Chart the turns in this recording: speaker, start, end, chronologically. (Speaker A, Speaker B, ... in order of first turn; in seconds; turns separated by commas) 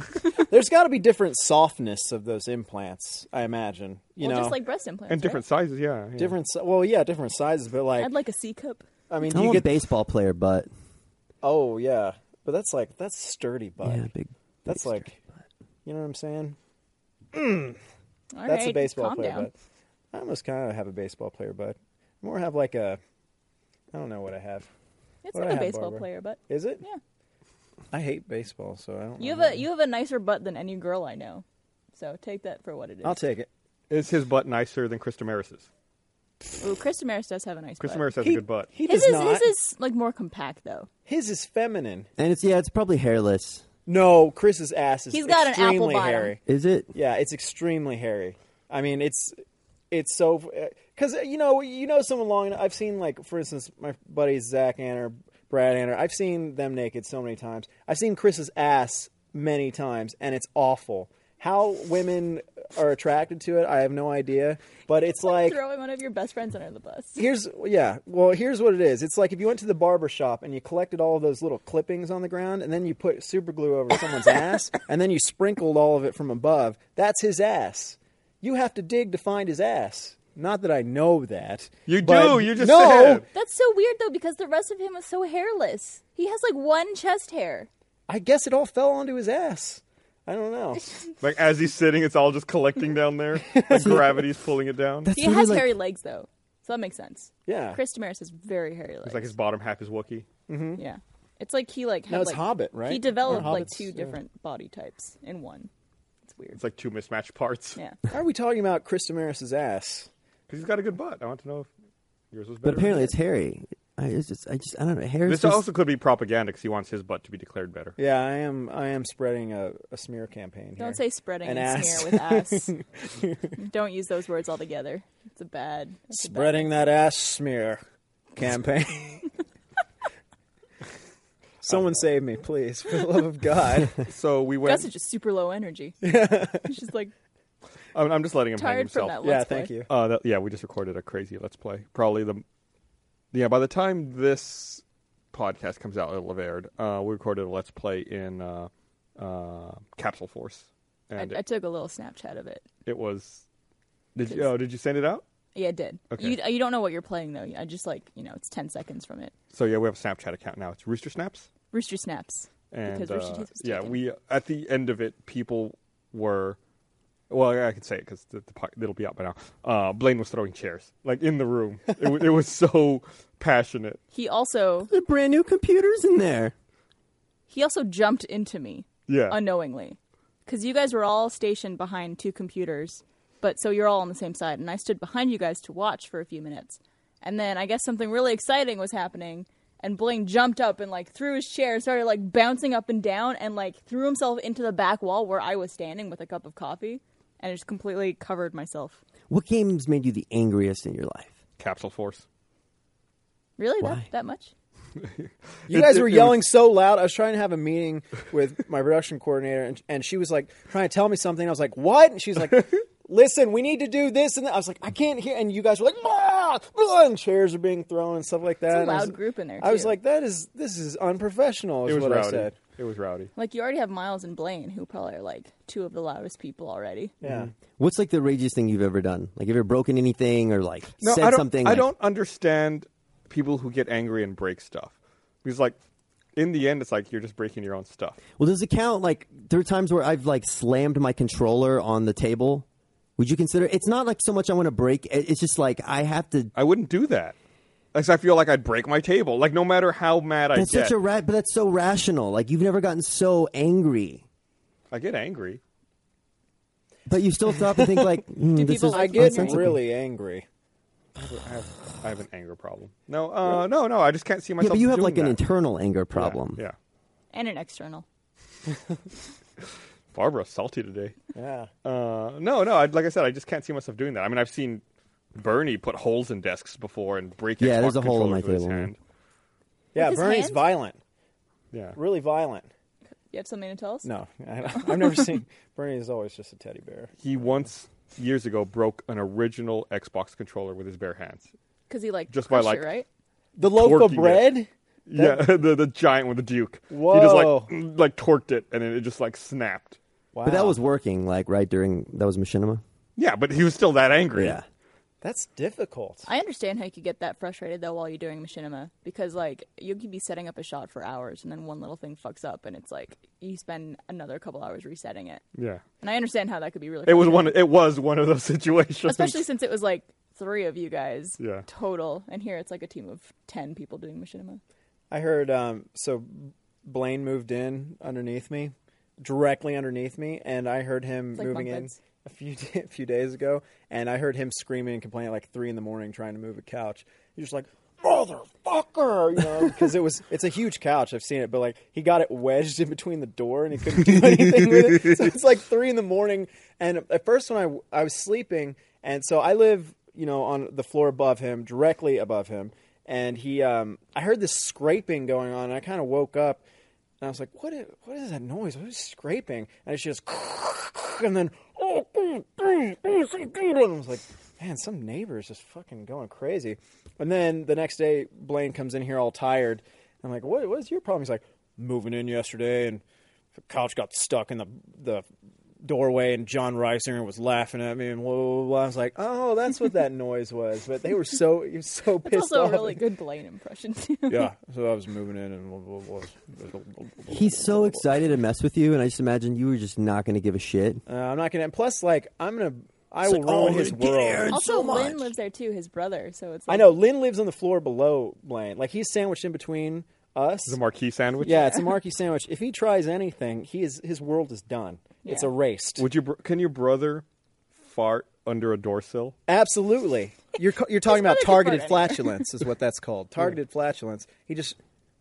Speaker A: 0.4-4.6, Speaker B: 4.2-5.4, Speaker C: 5.1-6.4, Speaker A: 6.2-8.1, Speaker B: 8.0-8.8, Speaker A: 9.1-9.7, Speaker D: 9.2-10.7, Speaker A: 11.4-14.0, Speaker D: 13.8-15.0, Speaker A: 14.7-15.2, Speaker A: 15.8-16.6, Speaker A: 17.3-17.8, Speaker B: 18.3-19.5, Speaker A: 18.4-19.5, Speaker A: 20.1-23.0, Speaker A: 23.9-24.7, Speaker B: 25.2-27.0, Speaker A: 25.3-26.8, Speaker A: 27.9-29.6, Speaker B: 29.2-33.2, Speaker A: 33.0-33.5, Speaker C: 33.9-35.7, Speaker B: 36.6-38.0, Speaker C: 37.8-38.7, Speaker A: 38.2-39.5, Speaker B: 38.8-40.9, Speaker A: 41.0-42.1, Speaker D: 42.2-43.6, Speaker A: 43.9-46.4, Speaker B: 45.1-46.3, Speaker D: 46.5-46.9, Speaker A: 46.9-49.4, Speaker A: 49.9-65.6, Speaker B: 65.2-67.2, Speaker A: 67.2-83.2, Speaker C: 81.9-83.2, Speaker B: 83.3-87.7, Speaker A: 88.1-90.8, Speaker C: 91.2-95.1, Speaker A: 93.5-94.2, Speaker D: 93.7-94.1, Speaker D: 95.0-95.7, Speaker B: 95.1-99.3, Speaker A: 97.5-97.8, Speaker C: 99.0-100.2, Speaker A: 100.5-100.8, Speaker B: 100.8-105.7, Speaker A: 102.1-104.2, Speaker C: 103.3-103.6, Speaker B: 106.2-106.6, Speaker C: 106.6-107.8, Speaker A: 108.1-110.1, Speaker C: 110.5-111.7, Speaker C: 112.3-113.1, Speaker D: 112.6-115.6, Speaker C: 115.2-118.0, Speaker A: 118.0-123.5, Speaker B: 120.8-122.7, Speaker B: 123.6-126.7, Speaker A: 126.2-127.8, Speaker A: 128.3-129.3, Speaker A: 131.6-134.0, Speaker C: 131.7-132.0, Speaker C: 134.0-134.9, Speaker B: 134.6-136.0, Speaker A: 136.0-136.7, Speaker B: 136.6-137.1, Speaker C: 137.9-139.2, Speaker B: 138.6-139.7, Speaker A: 139.2-139.9, Speaker C: 139.9-142.4, Speaker C: 143.3-151.4, Speaker B: 151.2-152.6, Speaker C: 152.8-153.4, Speaker C: 154.1-155.2, Speaker B: 154.3-154.5, Speaker B: 155.5-159.3, Speaker C: 156.1-156.4, Speaker C: 159.5-161.5, Speaker B: 161.7-164.0, Speaker C: 162.7-166.6, Speaker C: 167.3-174.0, Speaker B: 174.1-174.9, Speaker D: 174.9-176.5, Speaker B: 177.5-199.0, Speaker C: 179.1-179.4, Speaker D: 199.3-201.4, Speaker C: 201.6-202.2, Speaker B: 203.6-204.5, Speaker C: 205.7-206.4, Speaker A: 205.7-222.5, Speaker B: 218.7-219.9, Speaker C: 221.8-223.3, Speaker B: 223.3-227.1, Speaker A: 227.2-227.5, Speaker D: 227.8-231.9, Speaker C: 231.0-235.7, Speaker C: 236.3-238.2, Speaker D: 238.4-242.6, Speaker D: 243.2-246.5, Speaker C: 246.5-247.3, Speaker C: 247.9-250.9, Speaker D: 250.5-254.2, Speaker C: 254.9-255.6, Speaker D: 257.1-259.8, Speaker A: 257.7-258.2, Speaker B: 258.5-259.6, Speaker A: 258.9-260.4, Speaker C: 261.2-265.4, Speaker D: 264.6-266.6, Speaker C: 266.1-266.7, Speaker B: 267.3-268.0, Speaker C: 270.1-271.1, Speaker A: 271.3-271.7, Speaker C: 271.8-274.8, Speaker C: 275.3-279.0, Speaker D: 277.6-278.9, Speaker A: 279.9-281.0, Speaker B: 280.0-280.6, Speaker C: 281.7-282.0, Speaker A: 282.0-282.7, Speaker B: 283.3-284.1, Speaker A: 284.0-287.1, Speaker B: 284.8-285.3, Speaker C: 287.2-291.5, Speaker B: 291.9-293.1, Speaker C: 292.3-292.9, Speaker A: 293.6-295.4, Speaker C: 293.7-300.0, Speaker A: 296.9-297.7, Speaker A: 300.3-300.8, Speaker D: 300.4-302.8, Speaker C: 303.2-304.6, Speaker D: 304.3-304.6, Speaker A: 305.2-306.2, Speaker B: 306.3-315.4, Speaker C: 315.5-315.8, Speaker B: 316.0-317.6, Speaker C: 317.1-319.4, Speaker B: 319.0-324.6, Speaker C: 321.4-321.6, Speaker A: 325.1-356.6, Speaker B: 331.3-332.0, Speaker A: 357.2-373.0, Speaker A: 373.6-375.2, Speaker A: 375.8-383.0, Speaker B: 382.2-384.5, Speaker A: 384.3-388.1, Speaker D: 387.3-391.0, Speaker A: 391.1-394.5, Speaker D: 393.2-395.3, Speaker C: 393.6-393.9, Speaker B: 394.5-396.9, Speaker A: 396.7-400.8, Speaker C: 400.7-401.7, Speaker A: 401.4-406.0, Speaker B: 401.4-401.8, Speaker B: 405.2-405.5, Speaker C: 406.0-407.2, Speaker C: 407.8-409.3, Speaker A: 409.5-414.8, Speaker B: 411.1-412.4